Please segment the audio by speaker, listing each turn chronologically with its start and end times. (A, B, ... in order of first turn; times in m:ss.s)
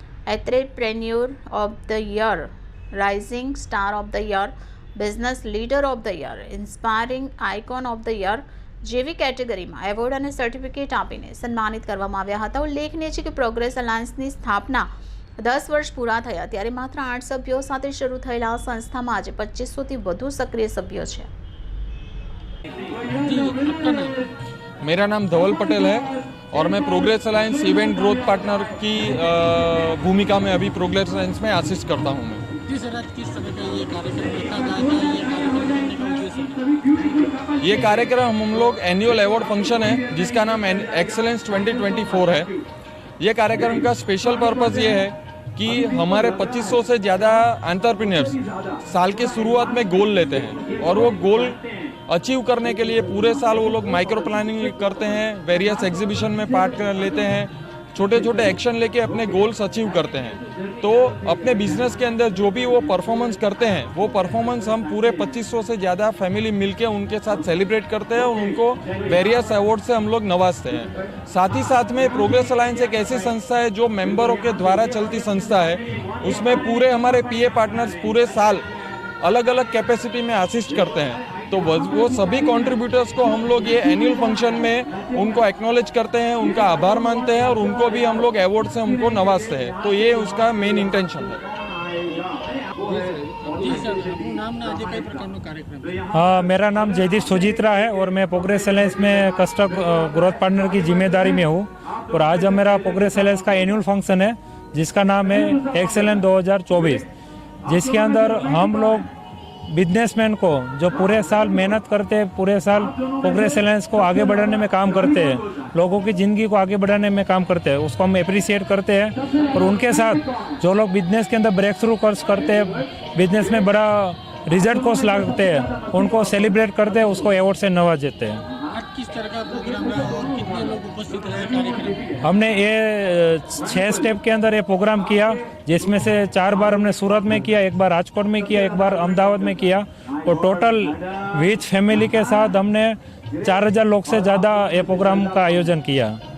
0:00.3-0:14.9 A
0:15.4-0:21.3 A
0:23.1-0:24.2 B
0:24.8-0:32.5 C
0:32.6-0:37.0 B
0:37.6-0:42.5 C
0:43.2-1:18.7 C
1:19.2-1:31.4 C
1:32.8-1:36.0 B
1:36.1-1:47.1 D
1:47.7-1:49.1 D
1:49.7-2:08.4 D
2:08.7-2:12.0 B
2:12.2-2:26.2 D